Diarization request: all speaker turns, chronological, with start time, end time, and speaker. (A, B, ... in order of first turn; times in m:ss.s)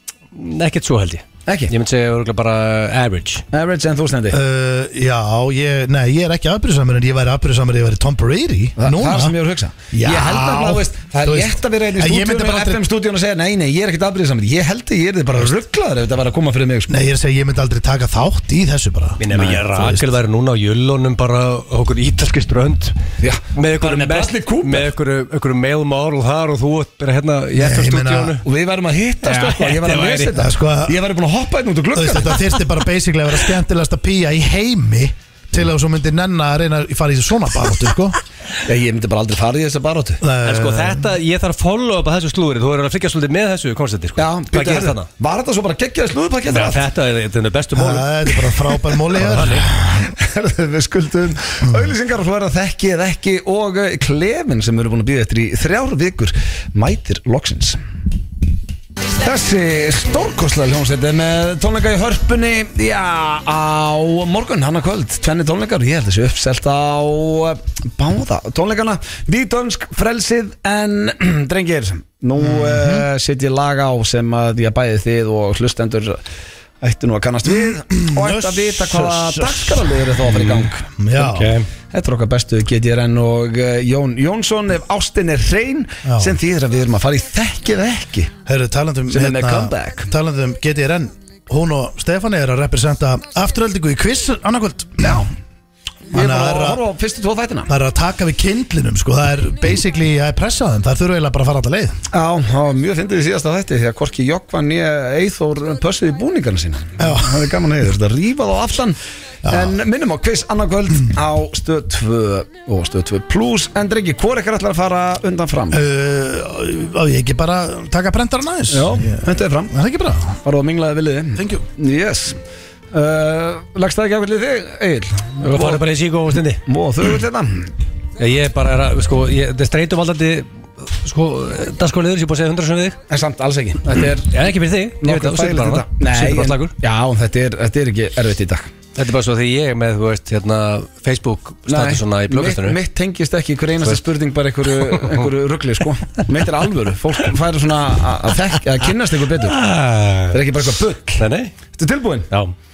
0:00.4-0:03.4 A
0:01.5-0:01.7 B
0:03.5-0:04.4 B
0:04.3-0:09.4 C
0:08.8-0:16.9 B
0:09.9-0:12.8 C
0:16.9-0:20.1 C
0:19.2-0:23.0 A
0:19.3-0:19.6 B
0:23.2-0:24.9 B
0:23.5-0:28.4 A
0:27.6-0:28.4 C
0:28.4-0:32.5 B
0:29.2-0:30.3 A
0:30.3-0:31.0 C
0:31.9-0:38.2 C
0:38.6-0:40.2 B
0:40.2-0:41.1 C
0:40.4-0:45.1 A
0:44.2-0:46.9 B
0:46.5-0:48.1 A
0:47.8-0:49.7 C
0:49.2-0:49.7 A
0:49.4-0:57.8 B
0:59.1-1:16.2 B
1:12.4-1:13.1 C
1:16.8-1:20.8 B
1:17.5-1:20.0 C
1:20.3-1:20.6 A
1:20.8-1:21.6 C
1:21.2-1:21.7 A
1:21.9-1:28.4 B
1:26.0-1:26.4 C
1:28.5-1:35.2 C
1:29.1-1:30.1 B
1:35.0-1:35.3 B
1:36.1-1:37.7 B
1:36.1-1:36.8 C
1:37.7-1:42.0 C
1:42.1-1:55.8 B
1:47.0-1:47.5 C
1:49.4-1:49.8 C
1:55.7-2:00.4 C
1:58.7-1:59.7 B
2:00.4-2:02.4 B
2:01.4-2:01.6 C
2:02.9-2:05.8 B
2:05.4-2:06.6 A
2:06.7-2:07.7 B
2:08.2-2:13.0 A
2:13.1-2:18.7 B
2:14.3-2:16.7 A
2:19.0-2:22.8 A
2:21.7-2:29.6 B
2:24.9-2:25.2 A
2:29.4-2:30.5 A
2:30.3-2:32.3 B
2:31.2-2:31.6 A